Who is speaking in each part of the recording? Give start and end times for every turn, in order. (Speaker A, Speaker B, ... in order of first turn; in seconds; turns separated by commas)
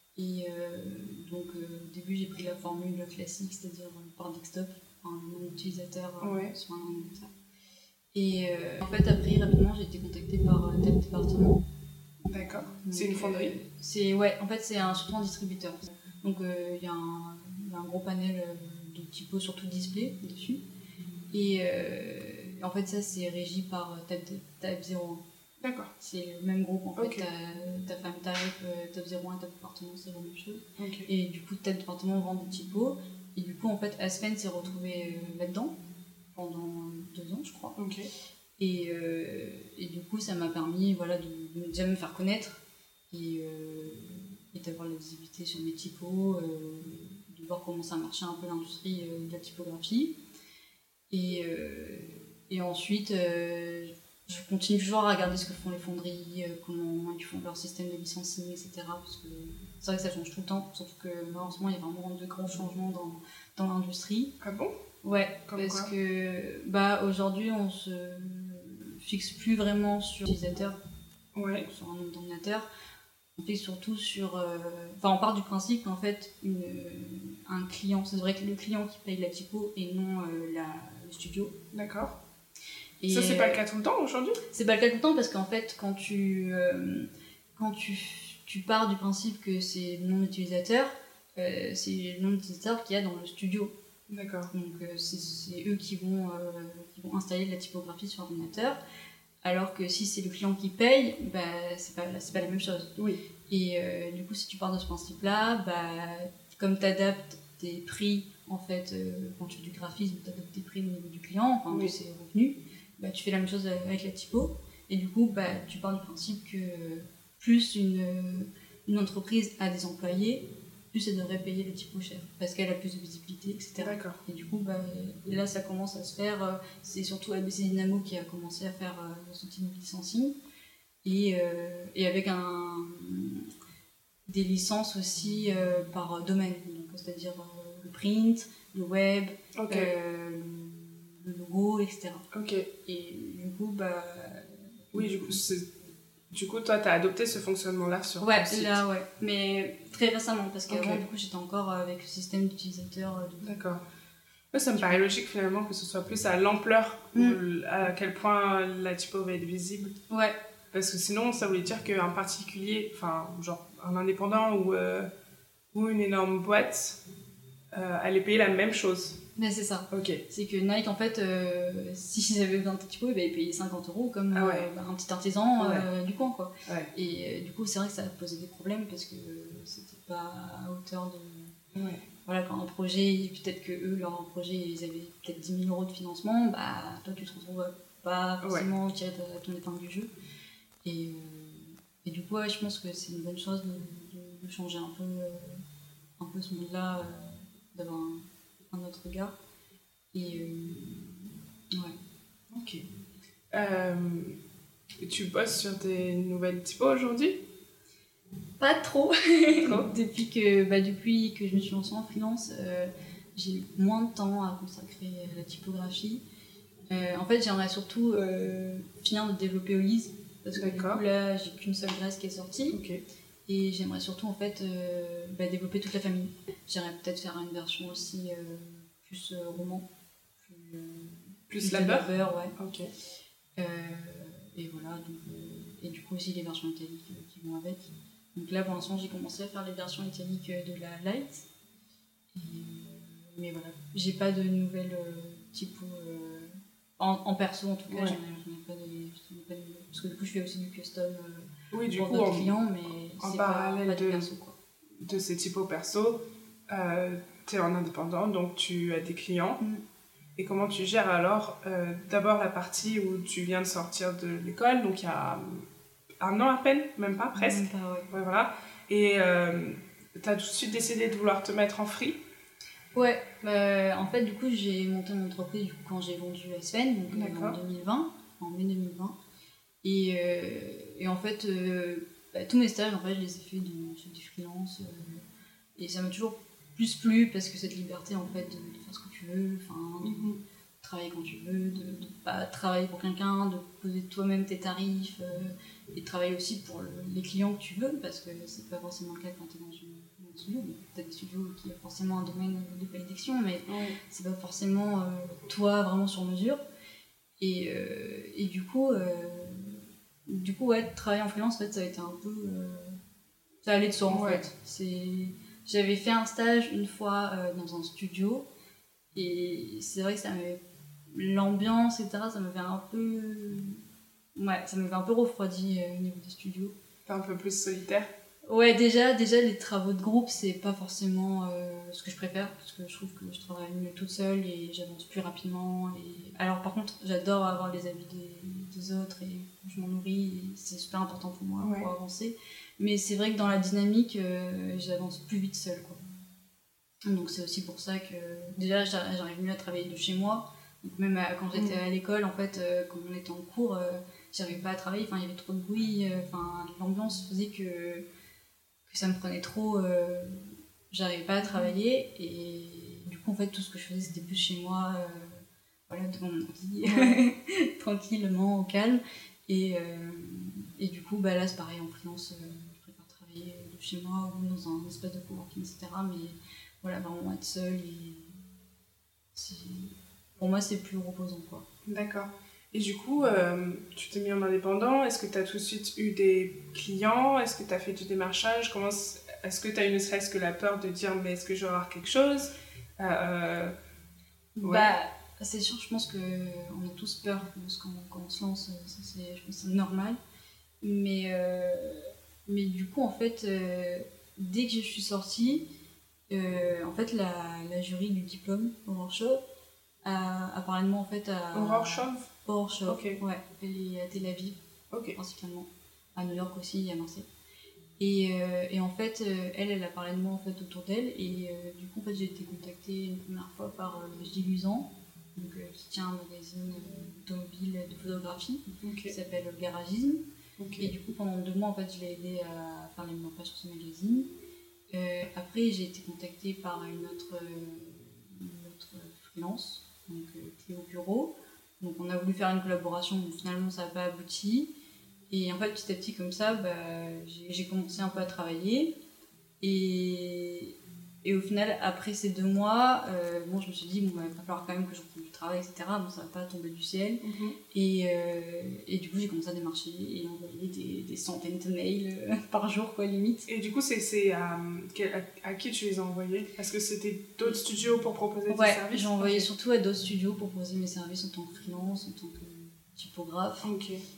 Speaker A: 0.2-7.3, Speaker B: 6.2-6.5, Speaker A: 8.1-11.6, Speaker B: 12.3-13.5, Speaker A: 12.8-20.6, Speaker A: 21.3-25.2, Speaker B: 25.6-25.9, Speaker A: 26.0-35.7, Speaker B: 27.0-27.3, Speaker B: 30.8-31.1, Speaker A: 36.3-37.8, Speaker B: 37.8-38.1, Speaker A: 38.6-42.6, Speaker A: 43.1-50.1, Speaker A: 51.1-64.3, Speaker B: 64.4-64.7, Speaker A: 65.0-70.8, Speaker B: 65.5-65.9, Speaker B: 71.3-71.7, Speaker A: 71.6-72.7, Speaker A: 73.4-81.5, Speaker B: 81.7-82.2, Speaker A: 83.0-83.6, Speaker B: 83.1-84.4, Speaker A: 84.5-93.7, Speaker B: 94.1-94.5, Speaker A: 94.5-98.8, Speaker A: 99.4-103.0, Speaker A: 103.5-130.3, Speaker B: 123.8-124.2, Speaker A: 131.0-133.5, Speaker A: 134.3-142.3, Speaker B: 139.5-139.9, Speaker B: 142.3-142.7, Speaker A: 142.8-145.4, Speaker B: 144.9-145.7, Speaker B: 146.3-148.8, Speaker A: 148.2-153.6, Speaker B: 150.7-151.0, Speaker B: 153.4-153.8, Speaker B: 154.5-159.9, Speaker A: 154.7-155.1, Speaker A: 160.1-160.4, Speaker B: 160.7-165.1, Speaker B: 165.7-167.0, Speaker B: 167.7-169.2, Speaker A: 169.4-181.6, Speaker B: 169.9-170.2, Speaker B: 174.3-174.7, Speaker B: 175.6-175.9, Speaker B: 176.7-176.9, Speaker B: 181.7-182.1, Speaker A: 182.2-190.1, Speaker B: 188.4-188.7, Speaker A: 190.8-195.6, Speaker A: 196.2-199.3, Speaker A: 200.1-202.0, Speaker B: 202.5-202.8, Speaker B: 203.5-204.4, Speaker B: 205.0-207.4, Speaker A: 208.6-216.2, Speaker B: 209.6-209.9, Speaker A: 216.9-222.8, Speaker B: 220.6-221.0, Speaker B: 222.7-223.0, Speaker A: 223.5-229.9, Speaker A: 230.4-232.5, Speaker B: 231.5-232.9, Speaker A: 233.6-241.4, Speaker A: 242.3-254.6, Speaker B: 247.9-248.2, Speaker B: 251.7-252.5, Speaker B: 253.2-254.3, Speaker B: 255.0-259.6, Speaker B: 260.4-265.7, Speaker B: 266.2-272.2, Speaker A: 267.3-268.1, Speaker A: 272.9-279.2, Speaker B: 277.1-277.6, Speaker A: 279.8-285.2, Speaker A: 285.8-306.6, Speaker B: 290.0-290.4, Speaker B: 303.7-304.0, Speaker A: 307.4-313.0, Speaker A: 313.6-318.4, Speaker B: 314.1-314.4, Speaker A: 319.1-323.8, Speaker A: 324.4-326.7, Speaker B: 327.1-328.1, Speaker A: 328.5-346.0, Speaker B: 341.6-341.9, Speaker A: 347.1-358.1, Speaker B: 351.5-351.8, Speaker A: 358.9-378.5, Speaker B: 361.4-361.7, Speaker B: 366.8-367.2, Speaker A: 379.3-381.6, Speaker B: 381.9-393.7, Speaker A: 394.6-400.2, Speaker B: 394.6-394.9, Speaker A: 400.8-405.6, Speaker A: 406.3-409.4, Speaker A: 410.0-414.6, Speaker B: 411.5-412.3, Speaker B: 412.9-413.2, Speaker B: 414.9-415.2, Speaker A: 415.1-417.3, Speaker A: 418.0-430.2, Speaker B: 428.8-429.1, Speaker B: 430.6-430.9, Speaker A: 430.8-434.3, Speaker A: 434.9-444.7, Speaker A: 445.3-448.9, Speaker A: 449.6-463.5, Speaker B: 457.2-457.6, Speaker B: 463.5-469.5, Speaker A: 468.5-473.7, Speaker B: 473.6-474.0